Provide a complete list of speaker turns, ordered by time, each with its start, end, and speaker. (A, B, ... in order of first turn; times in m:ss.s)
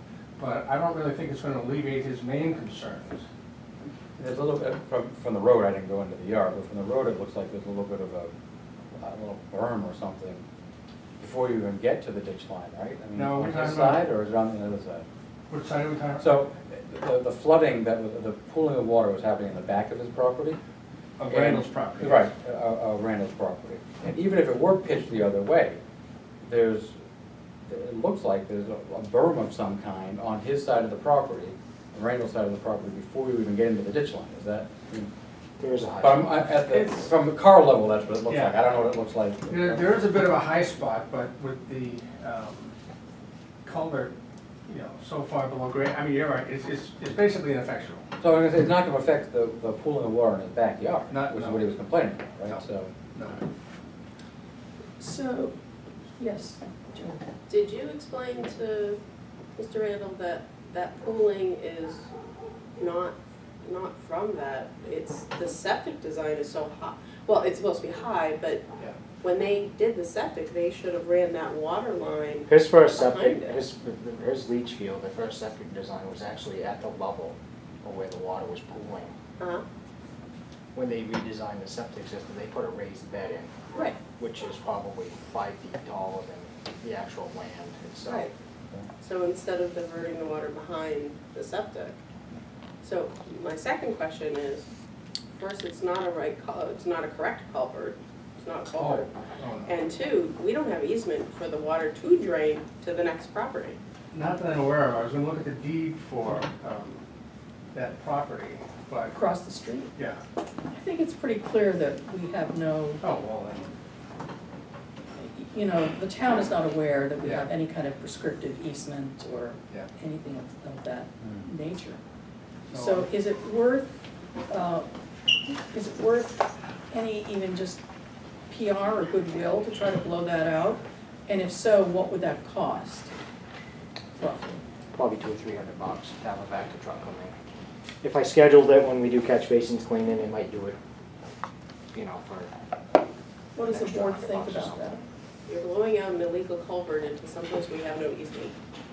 0:00.4-0:03.2 A
0:04.2-0:08.3 B
0:09.0-0:10.4 B
0:11.2-0:15.0 B
0:13.1-0:14.0 A
0:15.5-0:16.4 A
0:16.2-0:20.6 B
0:21.2-0:22.3 A
0:21.3-0:25.8 B
0:26.4-0:27.0 B
0:27.7-0:35.1 B
0:35.6-0:36.4 C
0:36.0-0:40.0 B
0:36.5-0:37.1 A
0:38.3-0:38.6 A
0:39.5-0:42.7 A
0:43.6-0:44.1 A
0:44.7-0:48.0 A
0:48.2-0:52.9 B
0:51.1-0:51.7 A
0:52.5-0:53.4 A
0:55.0-0:55.6 D
0:56.2-0:57.2 D
0:57.5-0:59.0 E
0:59.6-1:02.1 E
1:02.8-1:08.6 E
1:09.2-1:13.6 E
1:12.5-1:19.1 C
1:19.4-1:19.6 E
1:20.7-1:23.5 C
1:23.7-1:24.0 D
1:24.1-1:28.3 C
1:29.0-1:32.0 E
1:32.8-1:34.7 E
1:35.4-1:39.1 E
1:38.7-1:39.7 A
1:39.6-1:43.8 E
1:44.1-1:47.0 A
1:47.7-1:49.2 A
1:49.1-1:49.9 D
1:50.0-1:50.2 A
1:50.7-1:53.0 D
1:53.0-1:53.7 A
1:55.2-2:02.0 D
1:57.2-1:57.5 A
2:02.7-2:03.1 A
2:02.7-2:04.9 D
2:05.7-2:07.8 D
2:08.5-2:13.1 D
2:14.2-2:14.6 D
2:14.9-2:17.3 C
2:18.0-2:20.8 C
2:21.9-2:22.5 C
2:23.5-2:25.0 D
2:23.6-2:25.0 C
2:25.5-2:28.6 E